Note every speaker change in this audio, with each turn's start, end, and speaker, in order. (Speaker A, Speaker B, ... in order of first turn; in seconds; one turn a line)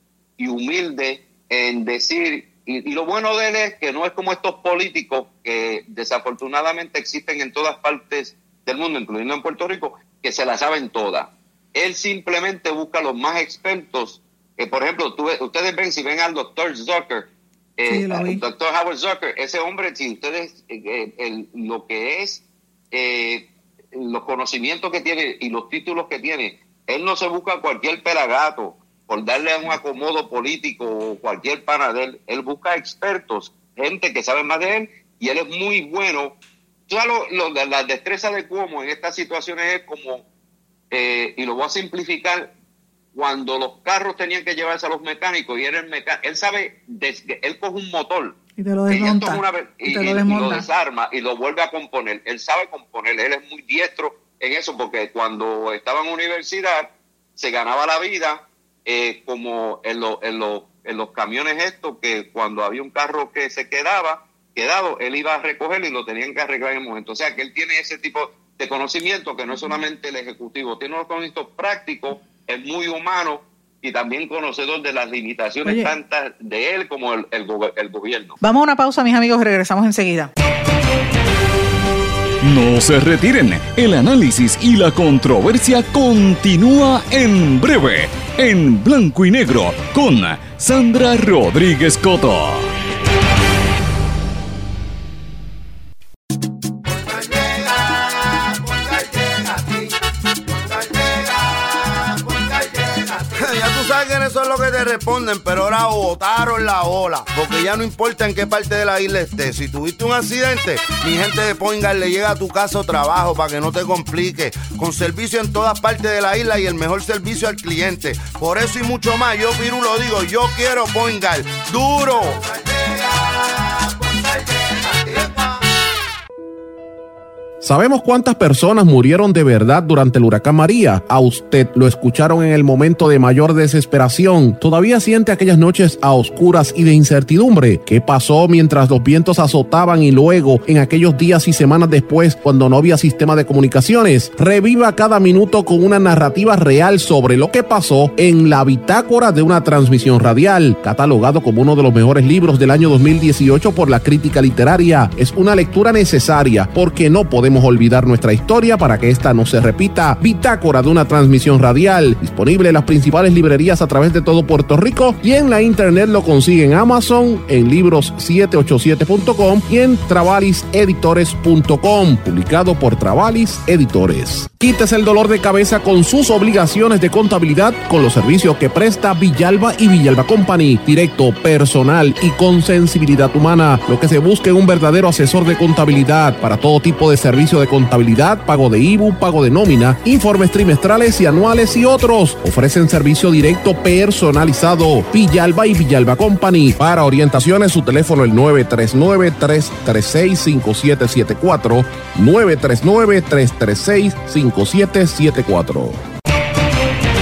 Speaker A: 0.4-36.4
Speaker B: 17.9-18.4
Speaker A: 36.9-40.2
Speaker A: 40.9-42.5
Speaker A: 43.1-48.4
Speaker B: 48.6-50.7
Speaker A: 48.9-78.4
Speaker B: 75.6-75.9
Speaker B: 78.4-80.3
Speaker C: 82.4-92.7
Speaker D: 96.8-99.9
Speaker D: 100.5-125.6
Speaker E: 127.6-206.0